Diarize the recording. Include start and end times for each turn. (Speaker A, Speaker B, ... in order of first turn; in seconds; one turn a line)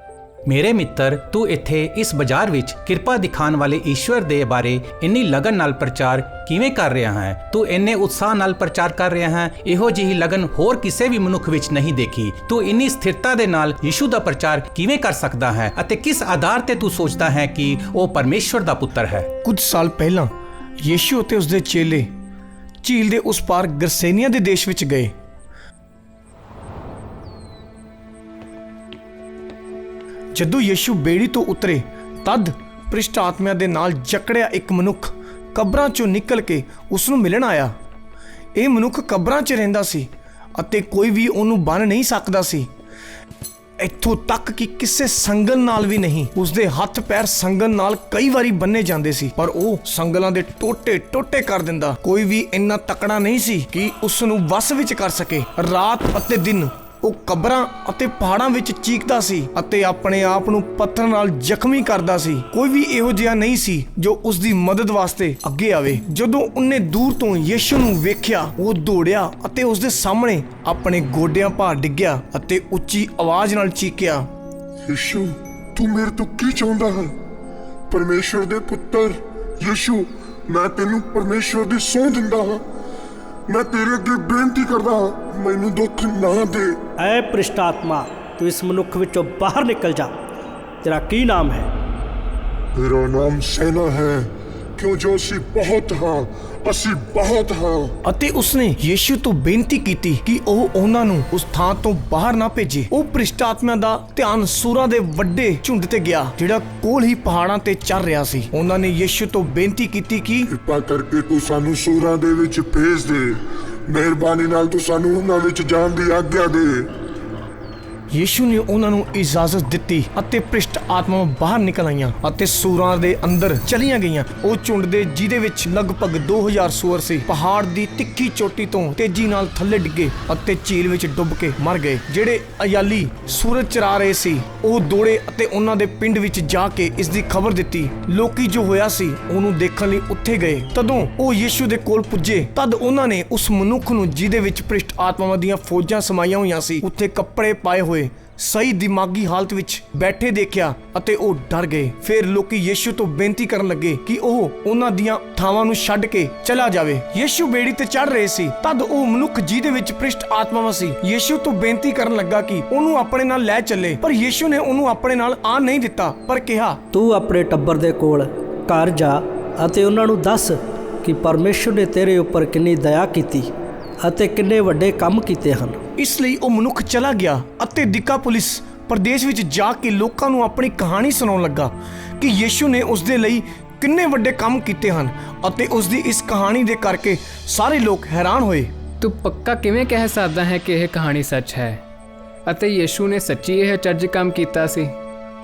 Speaker A: 0.5-19.3
Speaker B: 19.4-20.3
Speaker B: 20.8-22.1
Speaker B: 22.8-25.1
Speaker B: 30.3-37.7
Speaker B: 38.5-42.7
Speaker B: 43.8-74.3
Speaker C: 74.8-77.2
Speaker C: 77.9-82.6
Speaker C: 83.5-86.8
Speaker D: 87.0-90.2
Speaker D: 90.8-91.7
Speaker C: 92.7-97.9
Speaker B: 98.0-110.5
Speaker C: 110.5-116.9
Speaker B: 118.1-166.8
Speaker D: 166.9-175.8
Speaker B: 176.0-188.7
Speaker E: 189.0-191.8
Speaker E: 192.4-194.9